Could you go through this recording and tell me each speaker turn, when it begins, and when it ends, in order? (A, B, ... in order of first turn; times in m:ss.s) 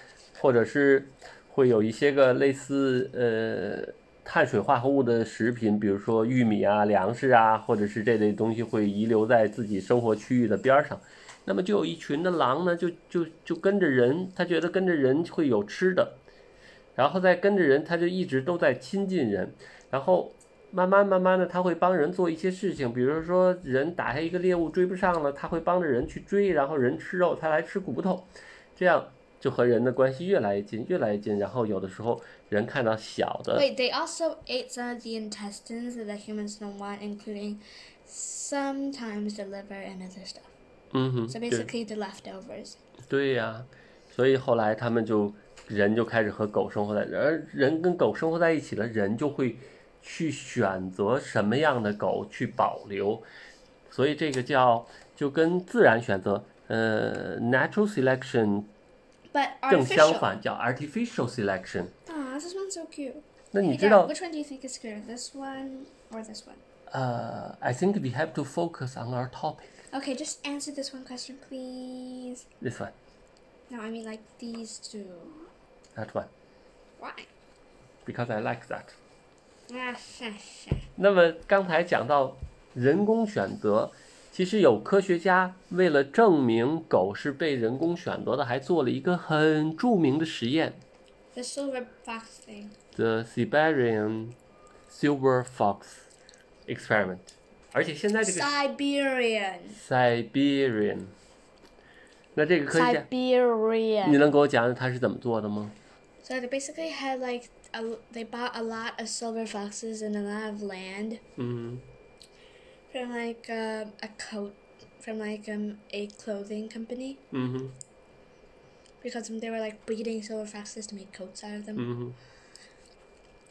0:00.4-0:16.2 A
0:17.0-0:33.7 A
0:33.6-0:40.5 B
0:40.9-0:41.7 A
0:41.3-0:42.8 B
0:43.1-0:53.2 A
0:53.9-0:58.7 A
0:59.3-1:00.3 B
0:59.7-1:01.9 A
1:02.1-1:06.6 B
1:03.5-1:04.1 A
1:06.9-1:09.8 A
1:09.9-1:12.5 B
1:12.6-1:13.0 A
1:13.7-1:15.5 B
1:16.0-1:16.3 A
1:17.0-1:17.3 B
1:18.0-1:19.0 A
1:19.7-1:20.9 B
1:21.0-1:30.8 A
1:31.3-1:32.7 B
1:33.0-1:34.4 A
1:34.9-1:36.1 A
1:36.7-1:38.6 A
1:38.2-1:39.8 B
1:39.7-1:41.2 A
1:42.4-1:43.1 A
1:42.7-1:44.2 B
1:44.0-1:45.8 A
1:46.2-1:51.2 B
1:51.4-1:51.8 A
1:52.9-1:57.2 B
1:57.3-1:57.8 A
1:59.0-2:01.9 B
2:01.8-2:02.2 A